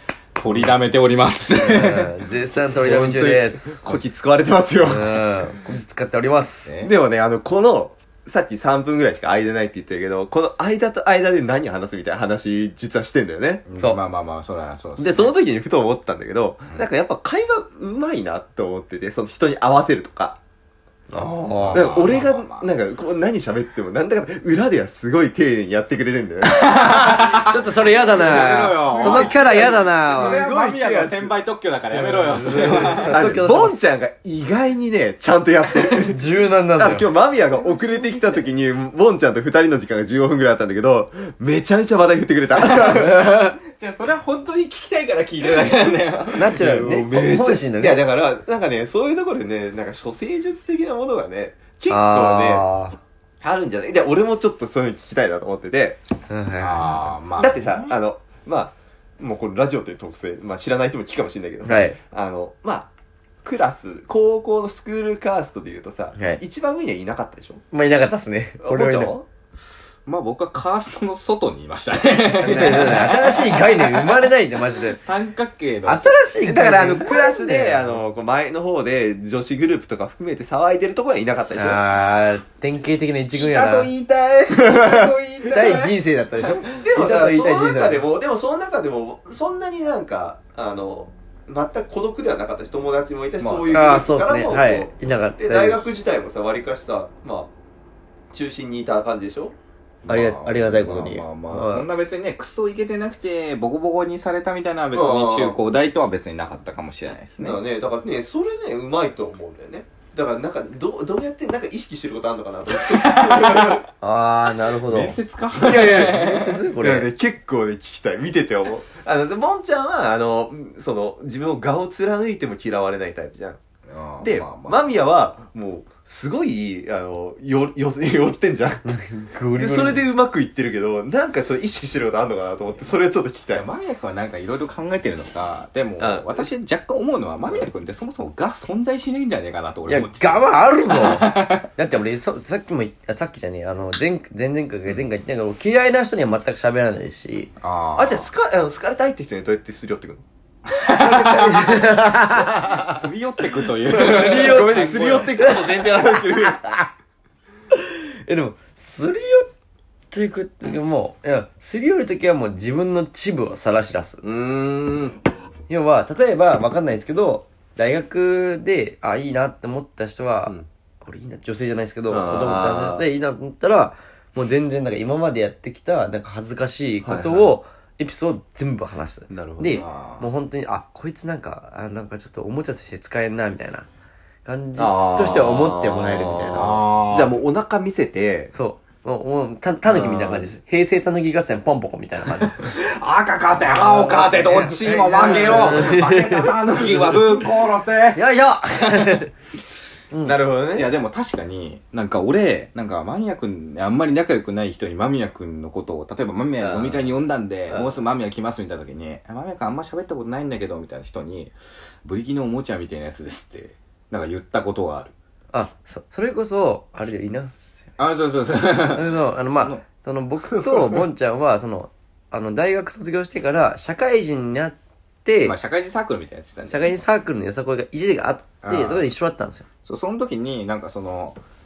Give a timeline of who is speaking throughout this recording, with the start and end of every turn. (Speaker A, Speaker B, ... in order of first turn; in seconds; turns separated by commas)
Speaker A: 0.4-2.3, Speaker B: 1.5-4.0, Speaker C: 2.8-5.3, Speaker B: 4.8-6.8, Speaker A: 6.7-6.9, Speaker C: 6.8-13.6, Speaker A: 13.7-15.3, Speaker C: 15.0-20.4, Speaker B: 21.1-21.9, Speaker A: 21.5-22.7, Speaker C: 21.7-26.7, Speaker A: 26.4-33.2, Speaker B: 26.9-30.4, Speaker C: 28.9-31.3, Speaker B: 31.9-34.0, Speaker C: 32.4-43.3, Speaker B: 36.0-37.1, Speaker A: 37.5-38.2, Speaker A: 42.7-46.9, Speaker B: 43.2-43.5, Speaker B: 46.3-48.0, Speaker C: 46.5-52.8, Speaker B: 51.9-53.0, Speaker C: 53.4-56.0, Speaker B: 56.3-57.1, Speaker A: 56.6-57.9, Speaker C: 57.4-62.9, Speaker B: 61.6-62.0, Speaker C: 63.4-67.6, Speaker B: 66.2-66.4, Speaker B: 67.7-69.2, Speaker C: 68.6-69.2, Speaker A: 70.1-76.3, Speaker C: 72.4-73.1, Speaker B: 72.4-75.0, Speaker B: 75.9-78.0, Speaker C: 76.4-81.8, Speaker B: 81.6-83.9, Speaker A: 83.3-86.7, Speaker C: 84.6-85.1, Speaker B: 85.5-88.0, Speaker C: 86.7-97.5, Speaker A: 93.4-94.0, Speaker B: 93.7-95.9, Speaker C: 98.3-99.5, Speaker A: 100.0-107.6, Speaker B: 100.1-101.9, Speaker C: 104.9-105.6, Speaker C: 107.4-113.8, Speaker A: 112.9-113.8, Speaker B: 114.0-115.2, Speaker A: 114.7-116.6, Speaker C: 115.5-123.6, Speaker B: 115.9-117.1, Speaker A: 123.9-124.9, Speaker C: 124.2-128.9, Speaker B: 128.8-130.1, Speaker C: 129.5-133.7, Speaker A: 133.5-141.7, Speaker C: 136.0-136.5, Speaker B: 139.9-147.5, Speaker A: 147.6-148.3, Speaker C: 148.0-150.2, Speaker A: 150.7-155.3, Speaker B: 150.8-153.0, Speaker B: 153.8-156.8, Speaker C: 153.9-156.6, Speaker B: 158.2-159.5, Speaker B: 160.1-164.2, Speaker C: 164.2-165.2, Speaker B: 165.7-183.9, Speaker C: 172.1-173.1, Speaker C: 177.0-177.6, Speaker C: 179.3-179.8, Speaker A: 179.7-180.3, Speaker B: 184.4-186.8, Speaker C: 184.8-188.5, Speaker A: 186.5-187.4, Speaker B: 188.5-192.7, Speaker C: 189.8-190.5, Speaker A: 192.6-198.2, Speaker C: 193.7-196.2, Speaker B: 195.3-196.5, Speaker C: 196.7-197.2, Speaker B: 198.2-199.3, Speaker A: 198.7-199.2, Speaker B: 200.1-200.4, Speaker C: 200.2-200.9, Speaker A: 200.7-215.1, Speaker C: 206.6-207.1, Speaker C: 207.7-207.9, Speaker B: 215.5-217.9, Speaker A: 218.0-219.8, Speaker B: 218.9-225.6, Speaker A: 225.4-227.0, Speaker B: 226.7-229.7, Speaker A: 228.6-229.1, Speaker A: 229.8-231.4